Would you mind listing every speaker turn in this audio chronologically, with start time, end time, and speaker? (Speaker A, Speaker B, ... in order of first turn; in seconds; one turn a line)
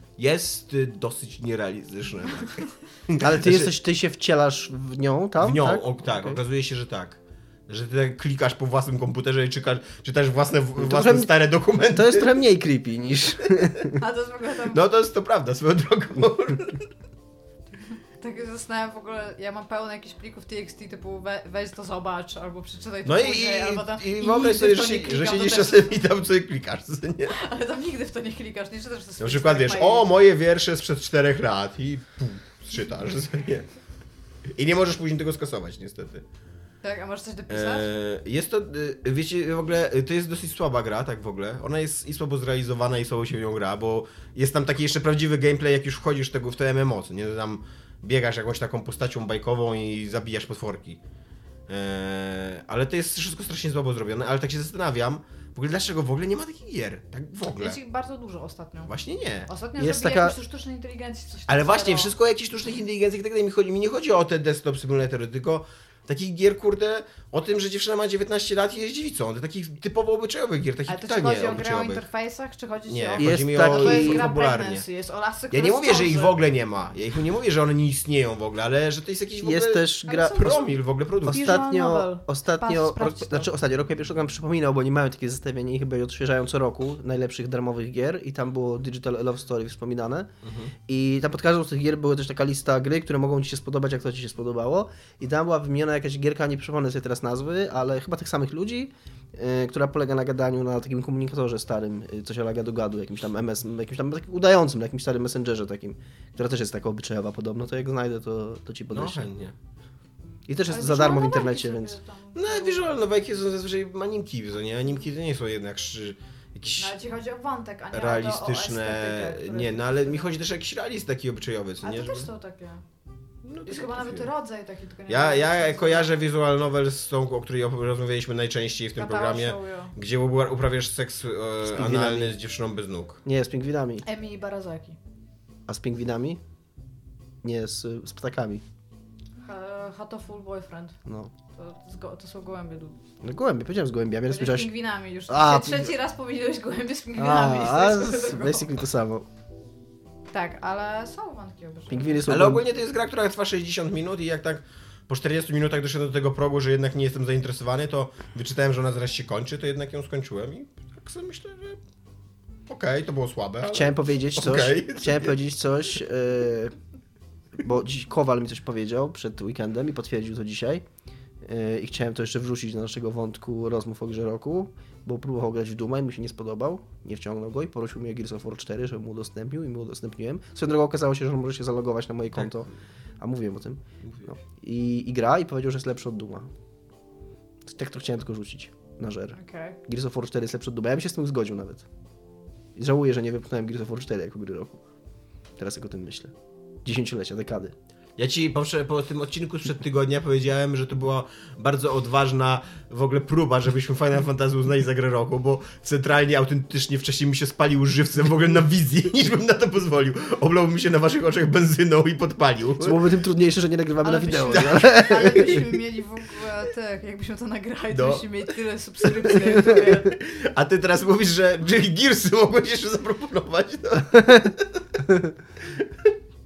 Speaker A: 0.2-3.7
Speaker B: 3.2-5.8
Speaker A: 5.4-12.4
Speaker B: 10.8-14.0
Speaker C: 13.9-14.8
Speaker A: 14.7-16.9
Speaker C: 18.2-26.0
Speaker A: 23.0-27.4
Speaker C: 27.3-30.1
Speaker A: 29.2-33.7
Speaker A: 34.5-36.2
Speaker C: 36.8-37.9
Speaker A: 37.5-51.0
Speaker A: 51.7-57.8
Speaker C: 57.6-58.9
Speaker A: 58.9-59.5
Speaker C: 59.5-62.1
Speaker B: 59.8-60.4
Speaker A: 61.5-72.0
Speaker C: 70.9-76.3
Speaker A: 72.9-74.8
Speaker B: 73.2-74.2
Speaker A: 75.5-81.6
Speaker B: 79.4-80.6
Speaker C: 80.0-83.5
Speaker B: 81.2-90.3
Speaker A: 90.4-90.7
Speaker B: 90.9-109.2
Speaker A: 108.9-109.5
Speaker B: 110.5-112.0
Speaker C: 110.7-113.0
Speaker A: 112.3-117.0
Speaker C: 116.8-120.3
Speaker A: 117.9-122.3
Speaker C: 121.8-122.8
Speaker A: 123.4-124.3
Speaker C: 123.7-126.2
Speaker A: 125.1-133.2
Speaker C: 129.0-129.9
Speaker B: 131.6-132.3
Speaker B: 133.2-134.0
Speaker C: 134.0-135.0
Speaker B: 135.7-136.4
Speaker B: 137.4-138.6
Speaker C: 139.4-141.0
Speaker B: 141.1-141.3
Speaker C: 141.5-143.0
Speaker B: 143.2-144.7
Speaker C: 144.3-148.7
Speaker B: 145.3-145.9
Speaker B: 147.2-149.3
Speaker C: 150.3-152.2
Speaker B: 151.9-152.7
Speaker A: 152.3-161.8
Speaker A: 162.7-165.3
Speaker B: 163.7-166.7
Speaker B: 167.6-170.8
Speaker B: 171.4-186.5
Speaker B: 187.7-191.8
Speaker C: 189.3-189.8
Speaker B: 192.8-194.8
Speaker B: 195.6-196.3
Speaker B: 196.8-197.7
Speaker A: 198.2-213.0
Speaker B: 212.8-215.7
Speaker C: 214.0-220.2
Speaker A: 217.9-218.3
Speaker A: 219.4-224.8